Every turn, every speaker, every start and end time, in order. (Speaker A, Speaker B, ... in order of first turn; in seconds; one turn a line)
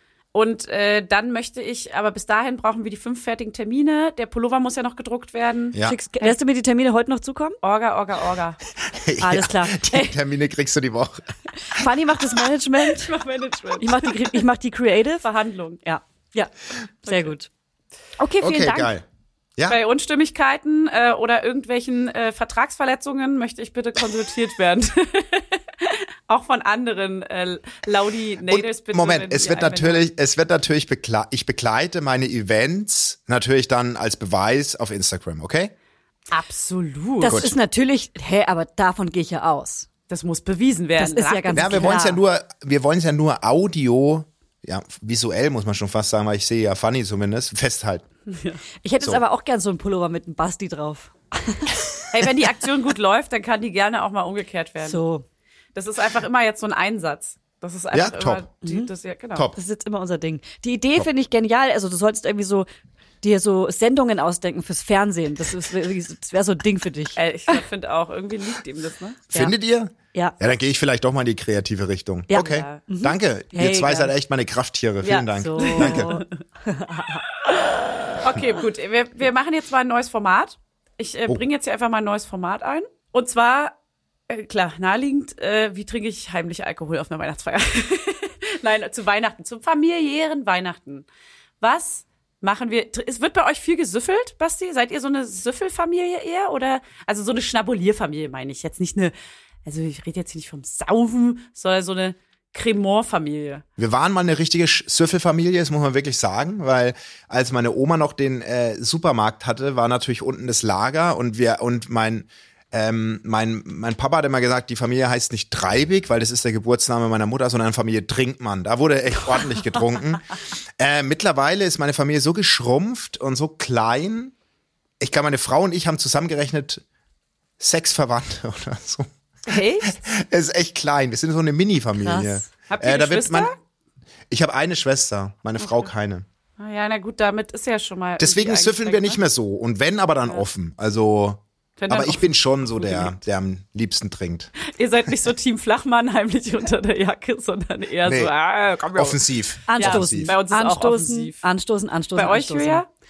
Speaker A: 0.3-6.4
Speaker B: 5.8-7.6
Speaker A: 7.6-8.6
Speaker C: 8.9-11.3
Speaker B: 9.2-10.2
Speaker B: 11.7-13.2
Speaker A: 12.9-14.4
Speaker B: 13.8-15.3
Speaker A: 15.2-15.8
Speaker B: 15.8-16.5
Speaker B: 17.0-17.5
Speaker A: 17.1-17.3
Speaker B: 18.2-18.9
Speaker C: 18.4-19.1
Speaker A: 19.7-30.1
Speaker C: 28.5-35.7
Speaker A: 36.3-37.4
Speaker B: 37.2-39.9
Speaker C: 37.2-37.5
Speaker A: 40.1-42.0
Speaker B: 41.0-42.2
Speaker C: 41.5-48.0
Speaker A: 48.3-48.6
Speaker B: 48.8-51.8
Speaker A: 52.1-55.0
Speaker B: 54.8-55.2
Speaker A: 55.8-59.5
Speaker C: 57.9-58.5
Speaker B: 58.6-58.9
Speaker B: 59.5-62.7
Speaker B: 63.2-67.6
Speaker A: 67.2-69.2
Speaker C: 69.3-76.1
Speaker B: 72.3-74.1
Speaker A: 72.3-72.8
Speaker B: 75.0-77.2
Speaker A: 75.6-76.2
Speaker A: 77.4-83.7
Speaker A: 84.3-91.1
Speaker A: 91.6-99.1
Speaker A: 99.7-103.6
Speaker C: 103.8-120.3
Speaker C: 120.8-124.3
Speaker C: 125.0-126.8
Speaker C: 127.6-133.5
Speaker A: 129.5-130.0
Speaker B: 132.0-132.5
Speaker A: 132.7-133.6
Speaker C: 134.3-136.2
Speaker A: 135.6-135.9
Speaker A: 136.6-139.2
Speaker C: 138.2-144.5
Speaker A: 141.8-143.2
Speaker A: 144.7-149.2
Speaker C: 148.1-148.3
Speaker C: 148.9-150.3
Speaker B: 149.7-152.8
Speaker A: 149.8-151.4
Speaker A: 152.2-152.9